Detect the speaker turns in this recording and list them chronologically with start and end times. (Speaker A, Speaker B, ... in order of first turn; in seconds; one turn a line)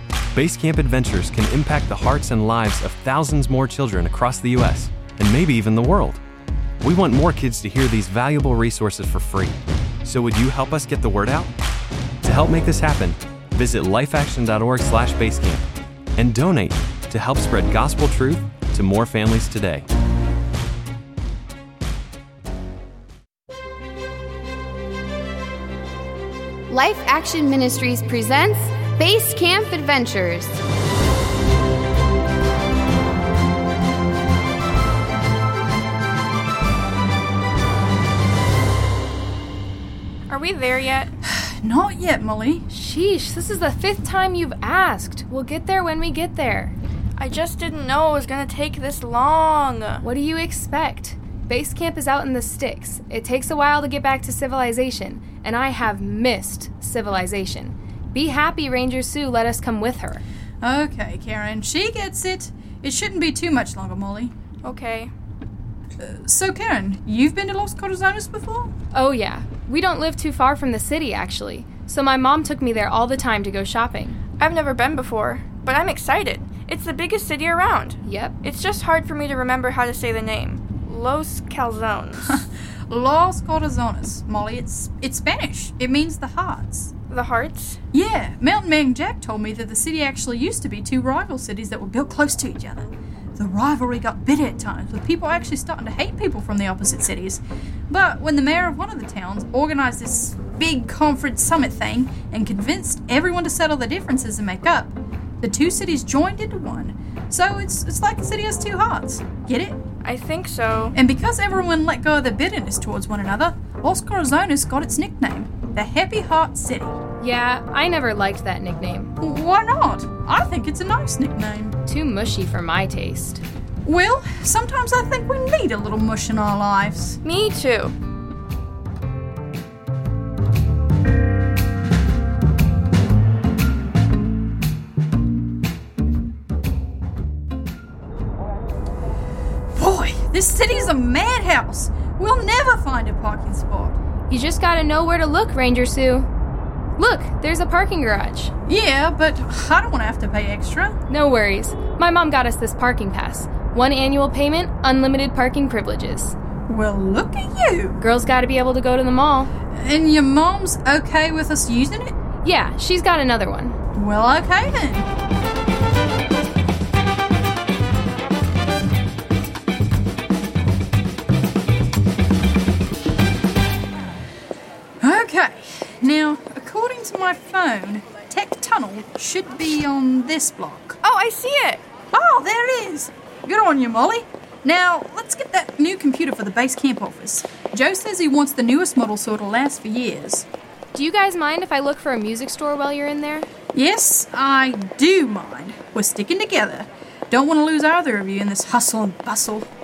Speaker A: 0.3-6.2
Speaker A: 6.8-11.5
Speaker A: 12.2-15.6
Speaker A: 16.1-19.9
Speaker B: 26.7-30.6
Speaker C: 40.3-41.1
Speaker D: 41.2-42.6
Speaker E: 42.7-46.7
Speaker C: 47.2-50.0
Speaker E: 50.0-60.2
Speaker D: 60.6-64.3
Speaker C: 64.6-65.1
Speaker D: 66.0-68.7
Speaker E: 68.9-74.2
Speaker C: 74.4-82.4
Speaker E: 78.0-78.3
Speaker D: 82.2-86.9
Speaker C: 87.1-87.8
Speaker D: 87.9-109.8
Speaker C: 110.0-110.9
Speaker D: 110.9-117.0
Speaker E: 117.2-119.1
Speaker D: 119.2-121.8
Speaker E: 121.8-123.4
Speaker D: 123.8-127.2
Speaker C: 127.2-127.9
Speaker D: 139.7-144.0
Speaker E: 144.3-146.3
Speaker E: 147.0-148.5
Speaker D: 148.7-150.9
Speaker E: 151.1-156.3
Speaker D: 156.7-158.0
Speaker E: 158.0-159.5
Speaker D: 159.7-162.1
Speaker E: 162.4-163.8
Speaker D: 163.9-165.1
Speaker D: 175.0-181.0
Speaker C: 181.0-181.8
Speaker D: 182.1-190.5
Speaker E: 190.9-193.5
Speaker D: 193.7-199.7